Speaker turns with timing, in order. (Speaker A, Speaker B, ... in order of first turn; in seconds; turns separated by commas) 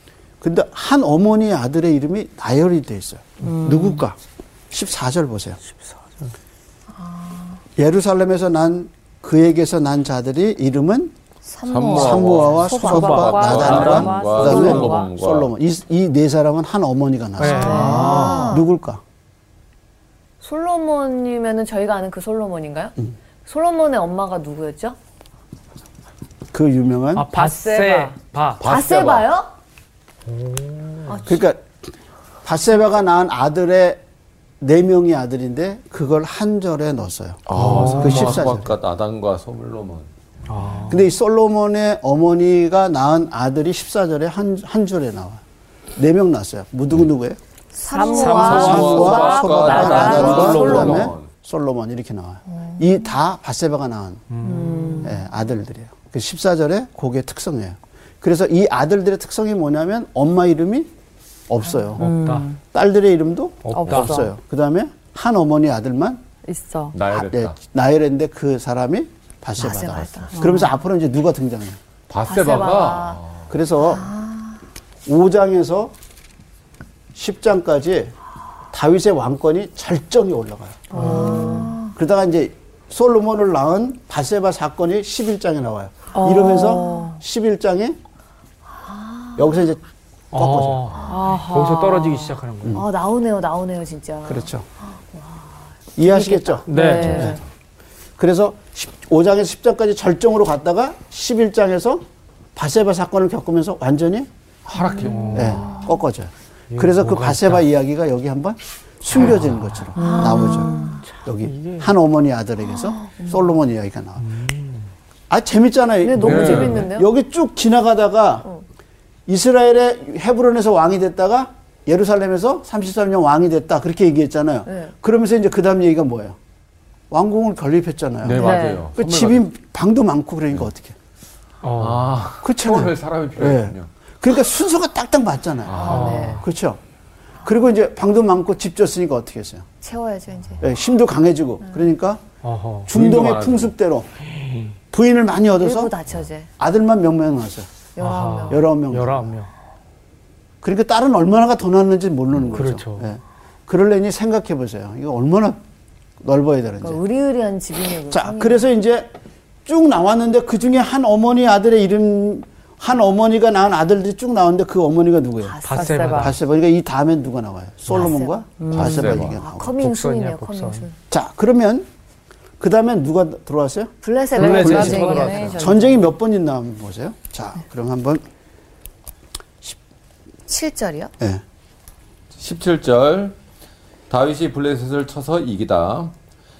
Speaker A: 0.4-4.2, Speaker B: 3.4-4.0, Speaker A: 4.7-5.6, Speaker C: 5.9-6.3, Speaker D: 7.0-7.6, Speaker A: 7.8-11.1, Speaker D: 11.4-13.0, Speaker E: 11.7-15.5, Speaker A: 11.9-19.0, Speaker B: 12.6-15.1, Speaker C: 12.7-14.8, Speaker C: 17.4-18.5, Speaker D: 17.4-18.7, Speaker D: 20.4-25.0, Speaker A: 26.5-27.3, Speaker C: 27.1-28.7, Speaker B: 27.3-28.1, Speaker E: 28.6-29.3, Speaker D: 28.6-29.5, Speaker C: 30.3-31.2, Speaker D: 31.1-31.4, Speaker A: 31.2-31.9, Speaker A: 32.4-34.0, Speaker A: 34.6-38.8, Speaker E: 37.5-40.1, Speaker C: 37.5-38.4, Speaker C: 40.5-41.1, Speaker A: 40.9-45.4, Speaker A: 46.0-47.4, Speaker D: 47.7-49.3, Speaker B: 47.9-51.0, Speaker C: 48.0-51.1, Speaker E: 48.3-51.3, Speaker A: 48.4-54.2, Speaker D: 50.0-50.3, Speaker C: 54.3-55.1, Speaker B: 54.4-55.2, Speaker A: 55.0-60.9, Speaker A: 61.5-62.1, Speaker B: 62.0-62.6, Speaker C: 62.0-62.5, Speaker A: 62.7-66.2, Speaker C: 63.6-64.3, Speaker B: 63.7-64.3, Speaker B: 66.5-66.9, Speaker E: 66.9-67.5, Speaker A: 67.1-71.8, Speaker D: 69.6-70.5, Speaker B: 70.3-70.7, Speaker E: 72.1-73.5, Speaker D: 72.2-73.2, Speaker A: 73.5-74.1, Speaker D: 73.8-74.6, Speaker A: 75.0-75.9, Speaker A: 77.1-78.1, Speaker A: 78.7-88.0, Speaker B: 80.9-81.8, Speaker C: 80.9-81.3, Speaker D: 81.0-81.9, Speaker B: 86.1-87.2, Speaker D: 88.8-89.5, Speaker A: 89.3-89.8, Speaker C: 90.3-92.8, Speaker A: 90.3-91.0, Speaker B: 91.1-92.4, Speaker D: 92.7-95.4, Speaker A: 94.2-94.7, Speaker D: 96.0-97.3, Speaker A: 96.0-97.4, Speaker C: 96.7-97.4, Speaker B: 96.7-97.4, Speaker A: 98.2-102.0, Speaker A: 102.5-104.3, Speaker E: 104.7-105.5, Speaker C: 105.0-105.8, Speaker A: 105.3-114.3, Speaker C: 106.7-107.7, Speaker B: 110.0-111.0, Speaker D: 110.0-111.0, Speaker C: 111.2-111.9, Speaker C: 114.2-114.8, Speaker A: 115.3-118.5, Speaker D: 116.0-117.1, Speaker E: 116.2-116.9, Speaker A: 119.3-126.4, Speaker A: 127.1-130.9, Speaker E: 128.2-129.4, Speaker B: 128.4-128.8, Speaker C: 131.6-132.1, Speaker E: 131.8-133.9, Speaker A: 132.4-136.8, Speaker E: 135.7-136.3, Speaker D: 135.7-136.4, Speaker C: 135.8-136.5, Speaker A: 137.4-139.7, Speaker D: 139.8-140.6, Speaker A: 140.6-142.2, Speaker C: 142.4-142.9, Speaker A: 142.9-144.1, Speaker E: 142.9-143.7, Speaker C: 144.2-144.7, Speaker A: 144.9-145.9, Speaker D: 145.6-146.5, Speaker A: 146.6-147.7, Speaker D: 147.9-148.6, Speaker C: 148.0-149.5, Speaker A: 148.5-149.3, Speaker A: 150.6-155.6, Speaker C: 152.5-153.1, Speaker A: 156.2-157.0, Speaker D: 156.8-158.7, Speaker A: 158.1-159.1, Speaker A: 159.7-165.6, Speaker D: 165.4-166.2, Speaker C: 165.6-166.4, Speaker B: 165.7-166.3, Speaker A: 166.1-169.8, Speaker D: 167.9-168.4, Speaker B: 168.6-169.2, Speaker E: 168.7-169.4, Speaker D: 169.2-170.9, Speaker C: 169.8-170.9, Speaker A: 171.1-171.9, Speaker A: 172.6-173.9, Speaker D: 174.0-175.7, Speaker B: 174.3-176.0, Speaker C: 174.3-175.7, Speaker A: 174.4-178.2, Speaker D: 180.5-181.1, Speaker E: 182.4-183.3, Speaker E: 184.1-186.1